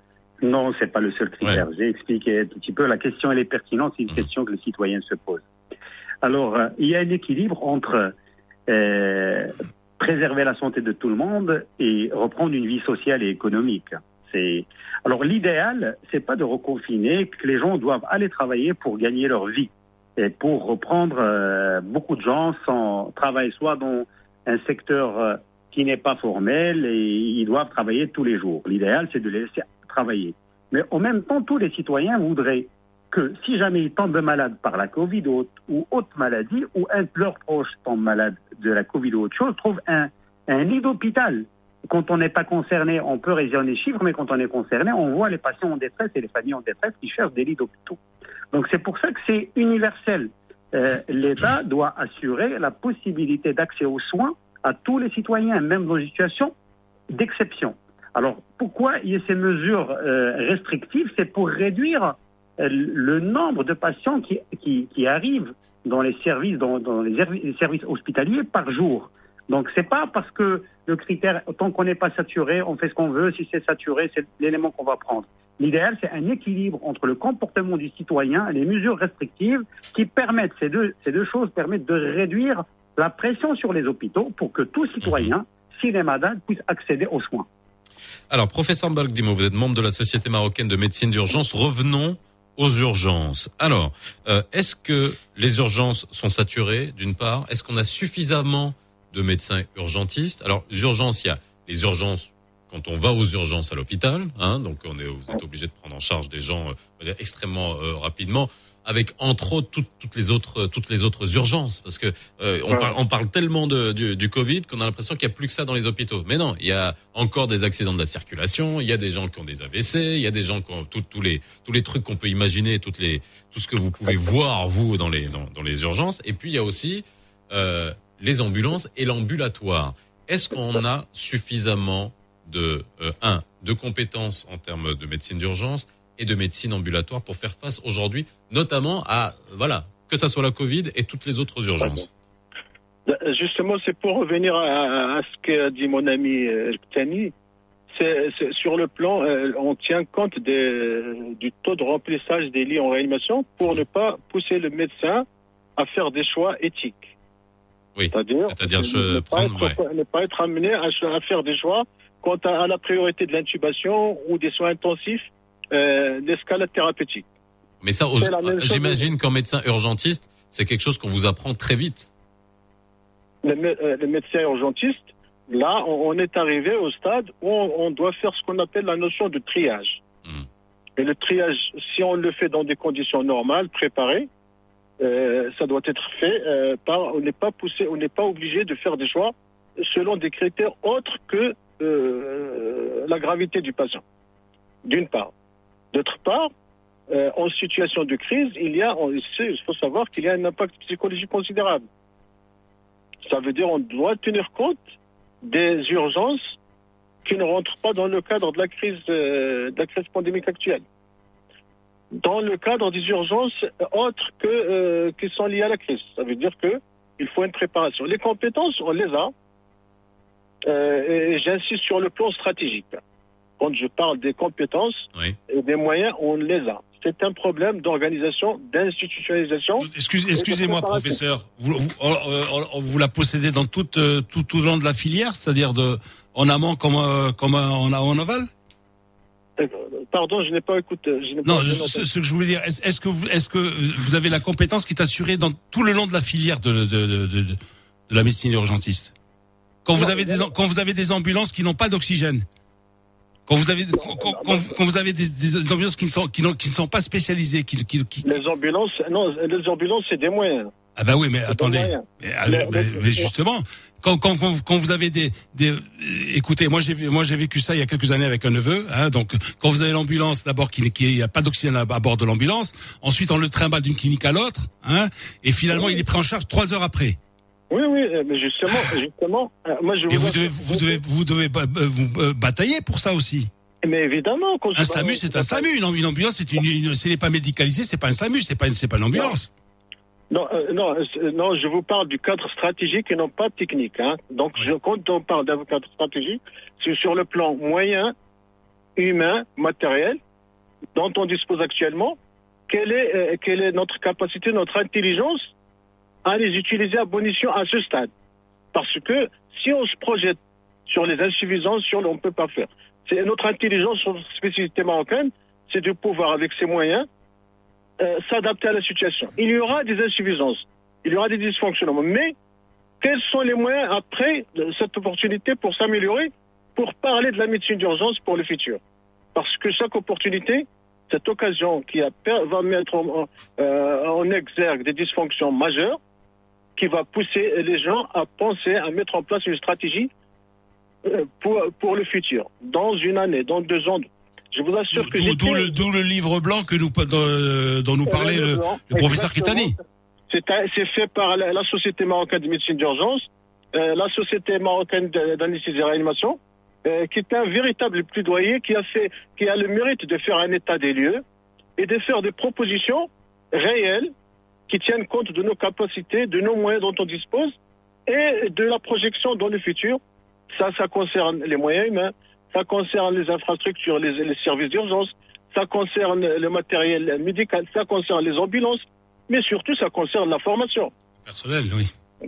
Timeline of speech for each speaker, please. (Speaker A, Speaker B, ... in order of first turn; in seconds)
Speaker A: 0.4-5.4, 6.2-8.1, 8.7-48.0, 48.5-56.5, 57.1-87.5
Speaker B: 85.0-85.3, 88.3-142.1, 157.9-159.8, 167.8-172.1
Speaker C: 143.1-147.3, 147.9-155.2, 155.8-157.1, 158.1-167.2, 168.2-169.1, 173.4-180.0, 181.0-184.3, 185.0-194.0, 194.8-195.3, 195.9-196.5, 197.1-201.8, 203.3-204.8, 205.4-206.6, 207.2-210.8, 212.2-219.3, 220.7-223.0, 223.6-231.2, 239.6-242.1, 249.9-250.5, 254.1-254.7, 258.2-260.7, 261.5-263.3, 277.7-281.0, 283.8-285.6, 290.3-298.1, 299.0-300.2, 300.9-302.2, 302.7-305.5, 306.2-308.1, 308.7-317.1, 318.0-322.3, 323.0-328.8, 329.3-336.0, 336.8-340.1, 341.0-345.7, 348.1-349.8, 350.3-361.2, 361.8-364.1, 364.7-367.5, 368.1-370.0, 370.5-380.9
Speaker D: 229.8-238.5, 241.4-249.1, 249.8-252.4, 253.5-258.4, 260.9-277.2, 280.1-283.5, 284.7-289.5, 344.9-349.8, 381.2-381.9